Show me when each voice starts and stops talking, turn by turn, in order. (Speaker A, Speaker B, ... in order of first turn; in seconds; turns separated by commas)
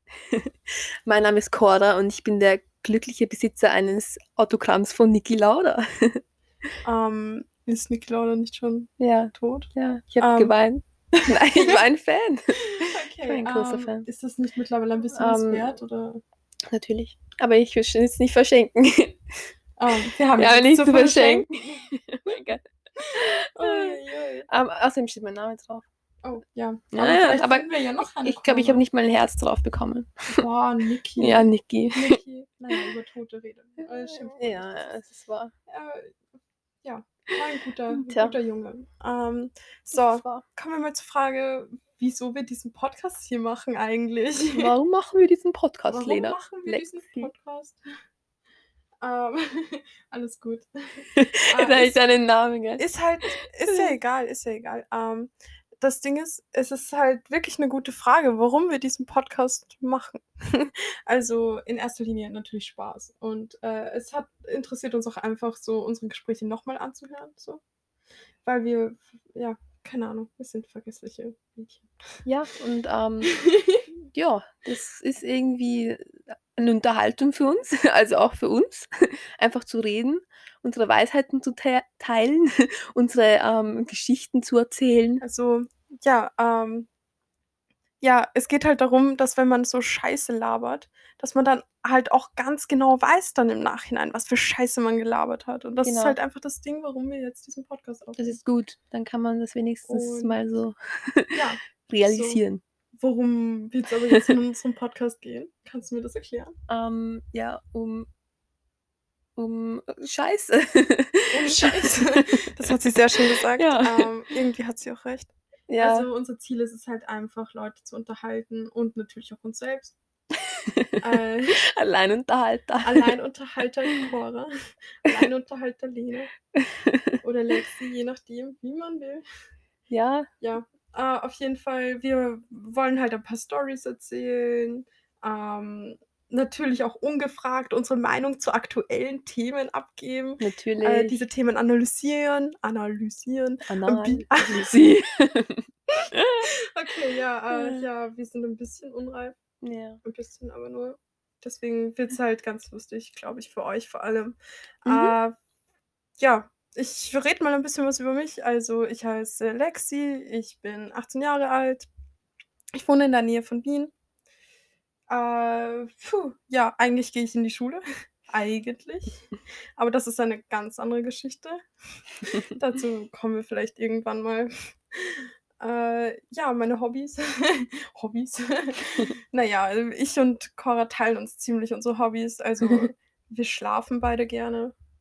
Speaker A: 1.1-6.2, Speaker B: 6.8-10.6, Speaker A: 9.0-14.1, Speaker B: 11.6-11.8, Speaker B: 12.8-16.2, Speaker A: 15.1-15.8, Speaker A: 16.7-19.2, Speaker B: 19.8-21.5, Speaker A: 20.4-22.6, Speaker B: 23.0-24.5, Speaker A: 23.2-25.9, Speaker B: 26.2-28.8, Speaker A: 26.9-30.4, Speaker B: 30.3-34.7, Speaker A: 31.2-32.8, Speaker A: 33.8-35.5, Speaker B: 35.7-36.2, Speaker B: 36.8-44.8, Speaker A: 37.9-38.4, Speaker A: 40.0-40.4, Speaker A: 44.6-47.3, Speaker B: 45.9-47.8, Speaker B: 49.0-52.0, Speaker A: 51.1-54.0, Speaker B: 52.8-67.6, Speaker B: 68.5-71.9, Speaker A: 72.2-73.3, Speaker B: 73.3-73.8, Speaker A: 74.1-85.2, Speaker B: 85.2-86.9, Speaker B: 88.0-98.4, Speaker A: 95.8-96.2, Speaker A: 98.2-102.6, Speaker B: 99.9-100.4, Speaker B: 101.3-102.4, Speaker B: 103.0-106.5, Speaker A: 106.7-108.1, Speaker A: 109.4-112.3, Speaker B: 111.3-120.0, Speaker A: 113.5-114.2, Speaker A: 115.7-116.1, Speaker A: 120.7-121.0, Speaker B: 121.0-121.6, Speaker A: 121.7-123.1, Speaker B: 122.8-124.5, Speaker B: 125.0-126.3, Speaker A: 126.6-127.2, Speaker B: 127.2-129.2, Speaker A: 129.9-130.3, Speaker B: 130.4-144.8, Speaker A: 140.4-141.2, Speaker A: 143.7-145.6, Speaker A: 146.1-146.5, Speaker B: 146.7-149.4, Speaker A: 147.5-147.9, Speaker A: 149.6-150.0, Speaker B: 150.0-155.3, Speaker A: 154.8-155.2, Speaker B: 156.2-161.9, Speaker B: 162.8-163.9, Speaker B: 165.1-169.3, Speaker B: 169.8-171.6, Speaker B: 172.3-174.5, Speaker B: 175.0-184.7, Speaker A: 182.6-182.9